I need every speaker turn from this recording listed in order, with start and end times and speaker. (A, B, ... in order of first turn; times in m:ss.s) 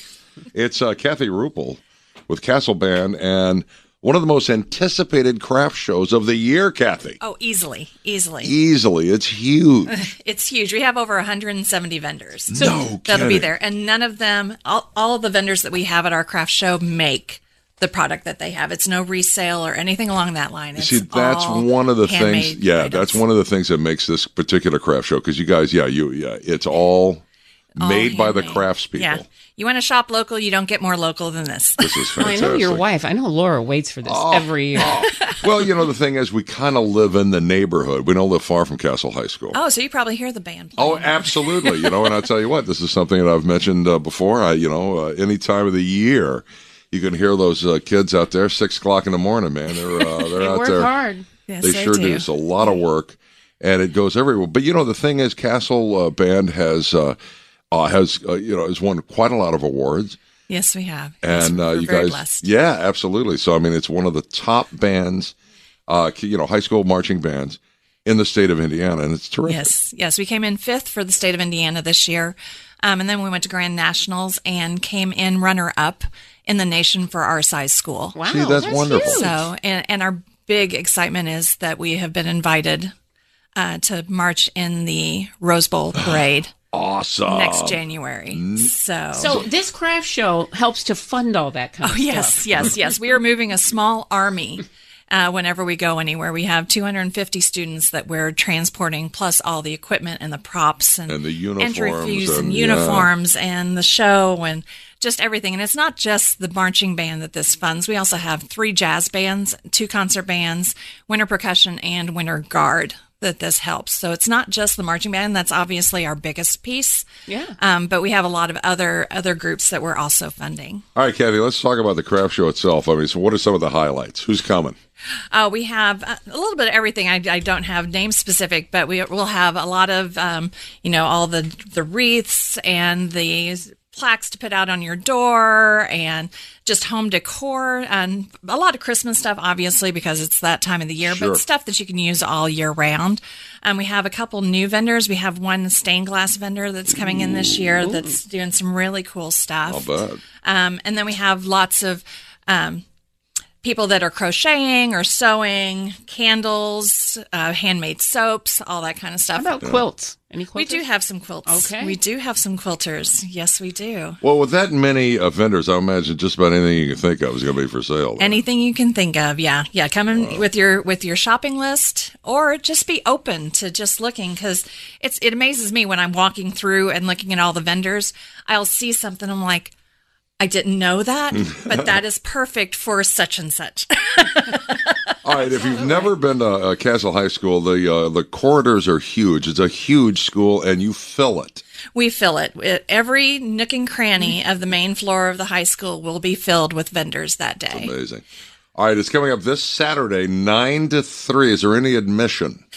0:00.5-0:07.2 A
0:07.2-0:08.5 B
0:08.4-0:09.9 A
0:09.9-0:23.2 B
0:12.5-0:13.5 A
0:20.8-0:27.2 A
0:27.8-0:29.2 A
0:27.8-0:32.3 B
0:31.8-0:32.8 A
0:32.2-0:35.0 C
0:34.0-0:39.6 A
0:34.8-0:35.3 B
0:39.5-0:42.1 B
0:40.8-0:50.9 A
0:50.2-0:51.3 C
0:51.5-0:52.3 B
0:51.6-0:57.2 A
0:57.7-1:00.2 A
1:00.5-1:02.5 B
1:01.2-1:05.3 A
1:05.9-1:09.7 A
1:09.4-1:18.2 B
1:18.1-1:19.4 C
1:18.3-1:19.3 A
1:18.9-1:22.9 B
1:23.6-1:26.5 B
1:26.7-1:27.8 A
1:27.2-1:29.4 B
1:28.3-1:28.7 A
1:29.1-1:32.7 C
1:31.8-1:57.1 B
1:41.1-1:43.1 A
1:57.3-1:57.6 C
1:57.6-2:00.8 B
2:00.9-2:04.8 A
2:05.3-2:32.8 B
2:21.0-2:21.4 A
2:27.0-2:27.7 A
2:27.9-2:28.1 C
2:29.7-2:30.2 A
2:33.6-2:39.6 B
2:39.4-2:40.9 C
2:40.5-2:44.2 B
2:41.4-2:42.0 C
2:44.2-2:48.4 A
2:48.2-2:59.7 B
2:50.1-2:50.4 A
3:00.4-3:06.0 B
3:05.2-3:11.6 A
3:11.9-3:17.9 B
3:17.7-3:18.2 A
3:18.7-3:22.6 A